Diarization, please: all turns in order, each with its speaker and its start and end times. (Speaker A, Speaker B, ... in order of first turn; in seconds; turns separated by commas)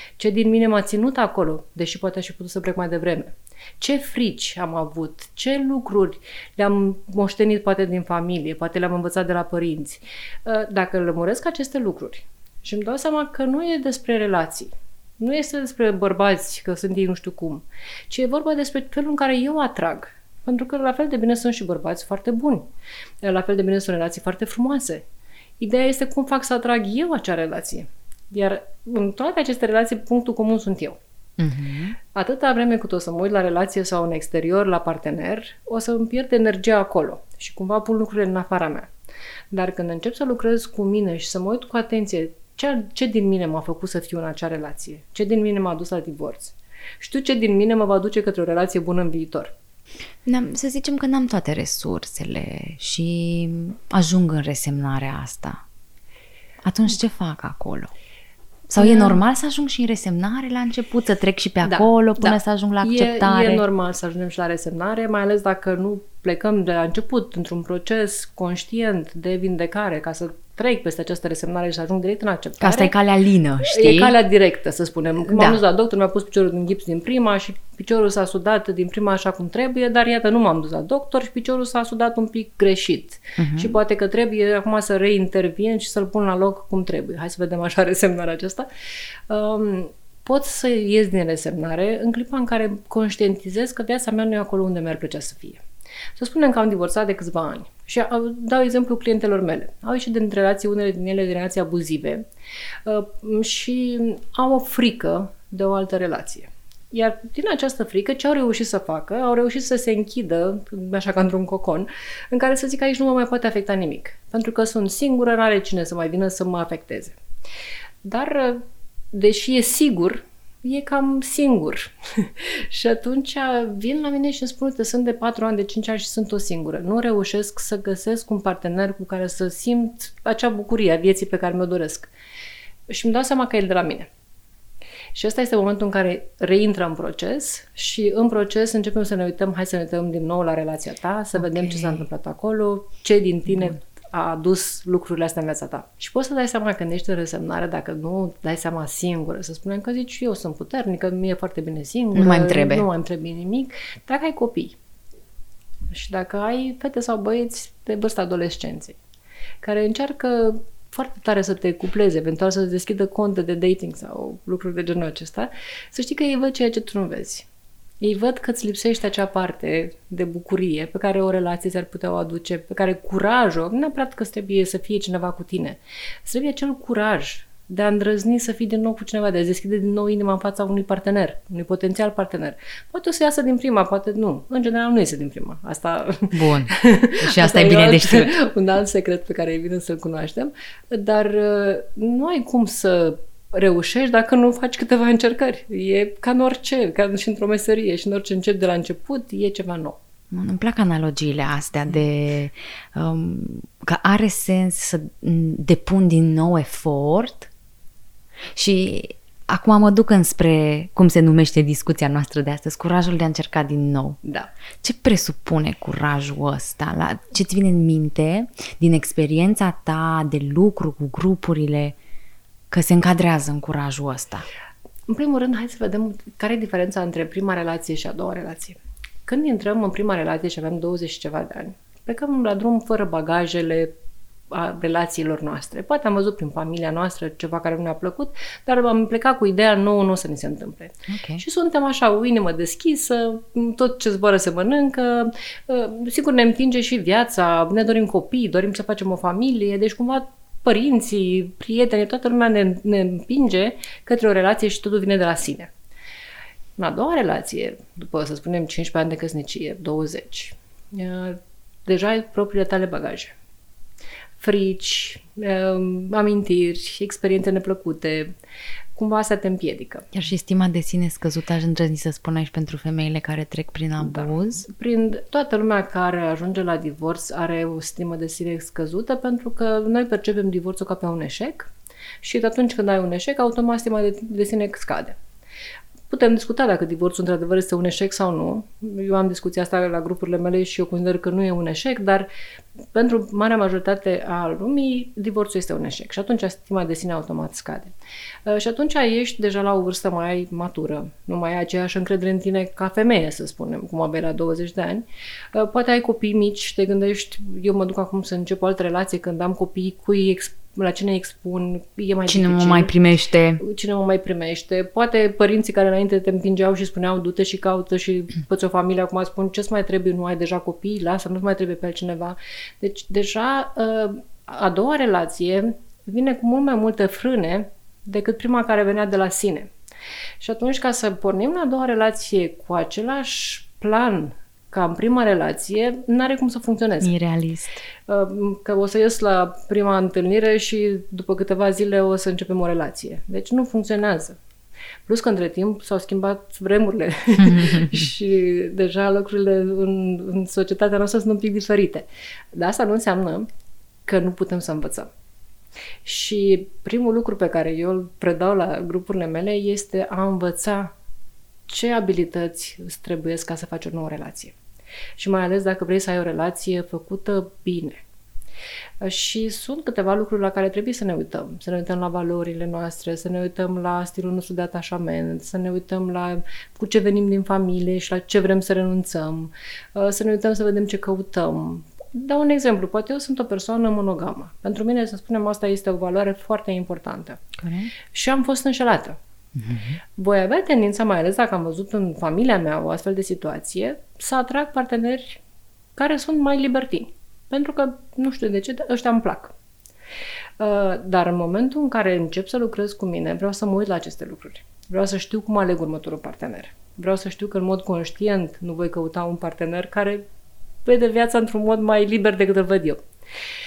Speaker A: 0.2-22.7, Speaker A: 23.2-25.0, Speaker A: 25.6-31.0, Speaker B: 31.4-32.0, Speaker A: 32.1-38.9, Speaker A: 39.5-49.5, Speaker B: 50.2-55.6, Speaker B: 56.6-57.9, Speaker B: 58.7-63.6, Speaker A: 58.8-59.2, Speaker A: 61.6-72.9, Speaker B: 72.6-74.2, Speaker A: 73.6-88.7, Speaker B: 75.3-75.6, Speaker B: 83.4-83.8, Speaker A: 89.3-95.6, Speaker A: 96.2-102.2, Speaker A: 102.8-117.2, Speaker A: 118.0-132.1, Speaker A: 132.9-134.1, Speaker A: 135.1-154.8, Speaker B: 141.4-142.0, Speaker B: 152.1-152.9, Speaker A: 155.9-159.0, Speaker A: 159.6-167.5, Speaker A: 168.0-200.0, Speaker B: 186.3-188.3, Speaker B: 200.3-207.5, Speaker B: 208.5-214.2, Speaker A: 214.2-214.5, Speaker B: 214.8-222.0, Speaker B: 222.7-224.4, Speaker A: 225.1-233.9, Speaker A: 234.5-255.7, Speaker B: 241.1-241.4, Speaker A: 256.8-263.3, Speaker A: 264.4-268.3, Speaker A: 268.9-270.1, Speaker B: 270.1-274.6, Speaker A: 274.0-281.7, Speaker A: 282.2-285.2, Speaker A: 286.1-292.3, Speaker A: 292.9-297.9, Speaker A: 298.4-312.9, Speaker B: 312.3-313.6, Speaker A: 313.6-329.7, Speaker A: 330.4-337.1, Speaker B: 337.0-337.8, Speaker A: 338.1-344.4, Speaker A: 345.1-353.5, Speaker B: 347.4-347.9, Speaker A: 354.1-355.1, Speaker A: 356.0-360.9, Speaker A: 361.7-364.5, Speaker A: 365.2-368.0, Speaker A: 369.0-387.4, Speaker B: 387.6-387.9, Speaker A: 388.1-389.2, Speaker B: 389.5-390.0, Speaker A: 390.2-395.4, Speaker A: 395.9-399.5, Speaker A: 400.6-410.2, Speaker A: 410.8-413.0